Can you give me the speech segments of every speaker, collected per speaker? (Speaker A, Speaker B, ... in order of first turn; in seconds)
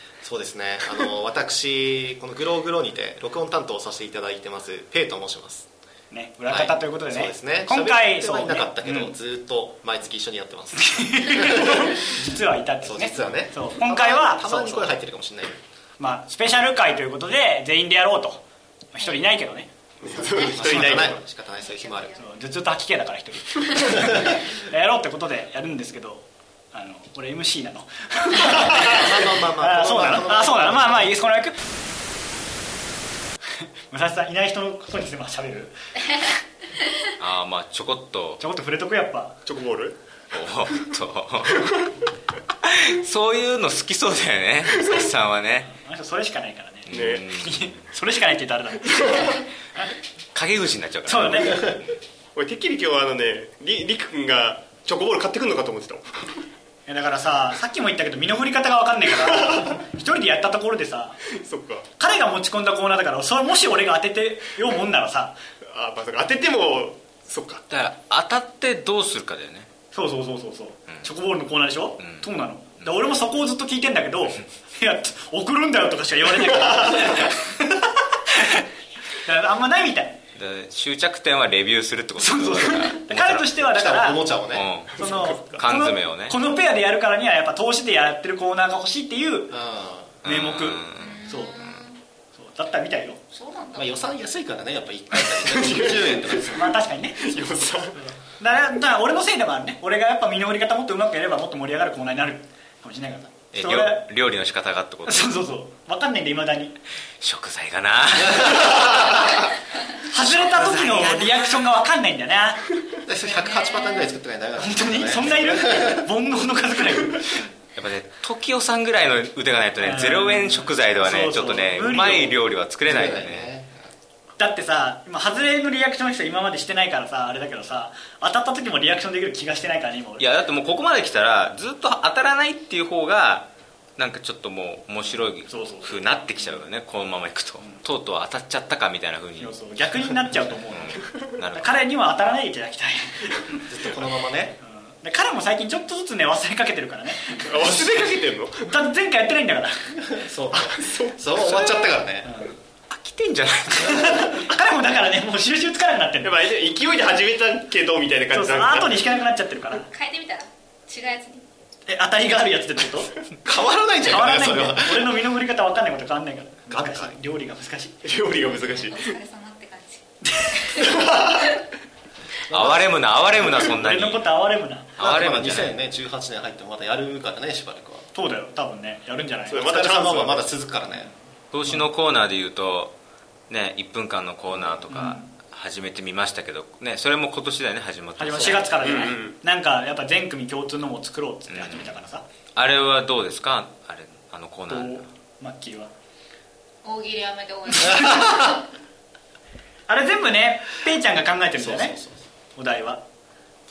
Speaker A: 0.2-5.7, 6.5-11.9, 12.8-15.6, 20.5-22.1, 28.7-31.2, 83.6-84.7, 89.5-90.2, 93.7-96.8, 113.0-116.0, 122.8-123.9, 143.7-144.6, 150.1-152.3, 163.4-165.2, 166.7-167.1, 172.5-172.9, 175.0-178.1, 179.5-181.1, 184.5-184.8, 197.9-198.3, 201.6-202.2
Speaker B: 6.1-9.1, 10.8-14.9, 16.0-19.7, 20.6-21.2, 22.2-31.6, 33.9-36.3, 38.4-39.4, 45.6-50.0, 51.1-51.8, 56.9-61.2, 62.0-65.4, 69.9-78.6, 79.2-80.2, 82.2-84.2, 85.0-89.5, 90.2-91.7, 92.3-93.2, 96.5-97.4, 97.9-104.0, 105.0-106.8, 110.0-112.7, 114.6-117.5, 119.8-122.4, 124.4-130.3, 135.2-136.2, 139.4-143.7, 144.6-147.7, 148.7-149.8, 152.2-152.6, 153.7-156.3, 158.3-159.9, 161.9-163.1, 164.0-168.0, 170.3-171.0, 173.4-174.9, 178.1-179.7, 184.9-185.3, 188.2-192.2, 194.7-195.9, 199.9-202.0, 202.6-203.0
Speaker C: 20.0-21.2, 39.5-40.0, 46.9-47.2, 52.4-56.3, 61.4-61.9, 65.7-67.6, 85.0-85.6, 95.2-96.6, 97.2-98.0, 147.4-148.7, 150.6-151.9, 156.2-159.1, 168.0-169.2, 170.8-171.5, 179.5-180.4, 188.8-189.3
Speaker D: 21.6-22.2, 91.0-92.0, 93.3-93.9, 113.2-114.2, 159.8-161.4, 168.8-170.0, 196.8-198.6
Speaker E: 37.2-38.4, 40.3-41.8, 42.6-45.7, 46.9-47.7, 50.4-51.8, 67.7-69.7, 72.0-72.3, 80.3-83.5, 84.5-85.0, 85.6-86.4, 90.2-91.2, 103.5-105.3, 107.2-109.1, 110.1-111.6, 117.8-123.5, 130.2-139.5, 140.7-141.8, 152.9-154.5, 172.5-174.3, 175.0-175.8, 181.5-183.0, 183.5-188.7, 191.5-192.0, 192.6-195.1